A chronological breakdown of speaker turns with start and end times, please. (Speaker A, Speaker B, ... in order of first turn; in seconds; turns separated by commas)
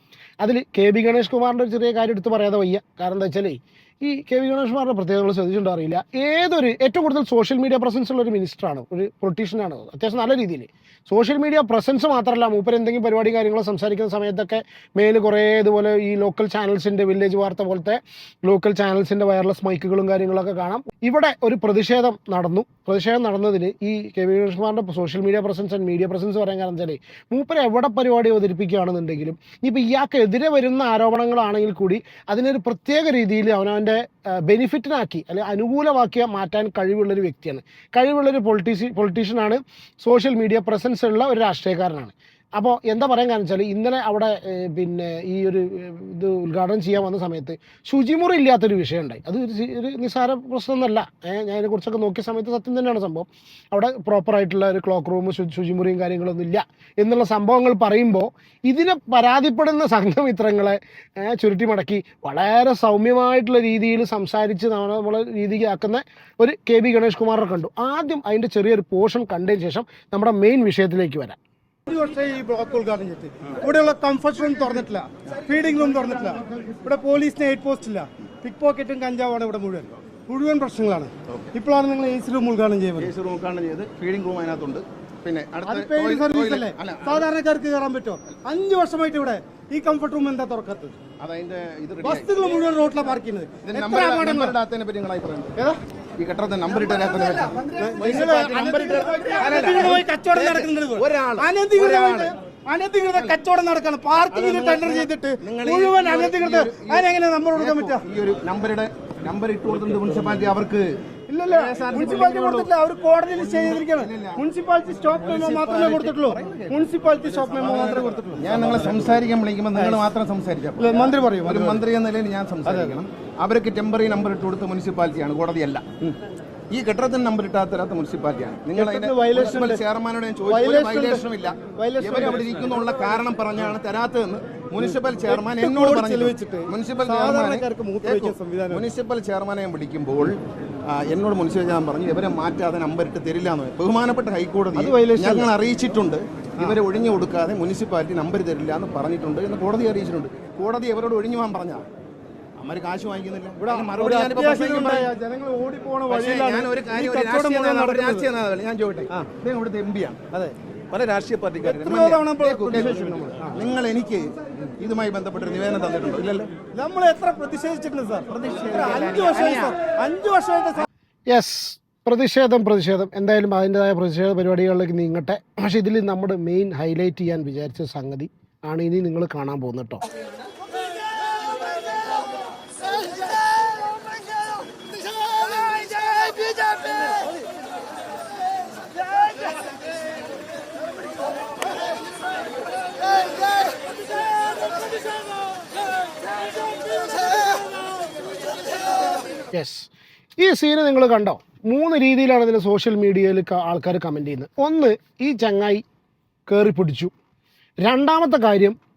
Speaker A: 0.4-71.4, Speaker B: 71.8-83.1, Speaker C: 83.0-87.3, Speaker B: 85.6-91.0, Speaker C: 91.2-92.3, Speaker B: 92.0-94.6, Speaker C: 93.6-95.5, Speaker C: 96.2-102.3, Speaker B: 97.4-108.0, Speaker C: 104.3-110.9, Speaker B: 111.3-119.1, Speaker C: 111.5-112.7, Speaker C: 113.3-114.4, Speaker C: 115.1-126.2, Speaker B: 119.7-120.1, Speaker B: 120.8-121.8, Speaker B: 122.7-123.0, Speaker C: 126.7-140.4, Speaker B: 128.7-129.8, Speaker B: 130.5-132.9, Speaker B: 134.8-138.8, Speaker C: 140.9-151.8, Speaker B: 144.7-145.5, Speaker C: 152.6-155.1, Speaker B: 153.6-158.3, Speaker C: 156.1-160.2, Speaker C: 160.9-166.5, Speaker B: 161.6-163.7, Speaker B: 166.7-170.9, Speaker C: 168.3-169.7, Speaker A: 171.3-180.0, Speaker B: 185.4-186.9, Speaker A: 199.5-205.8, Speaker A: 206.5-207.1, Speaker A: 207.8-208.8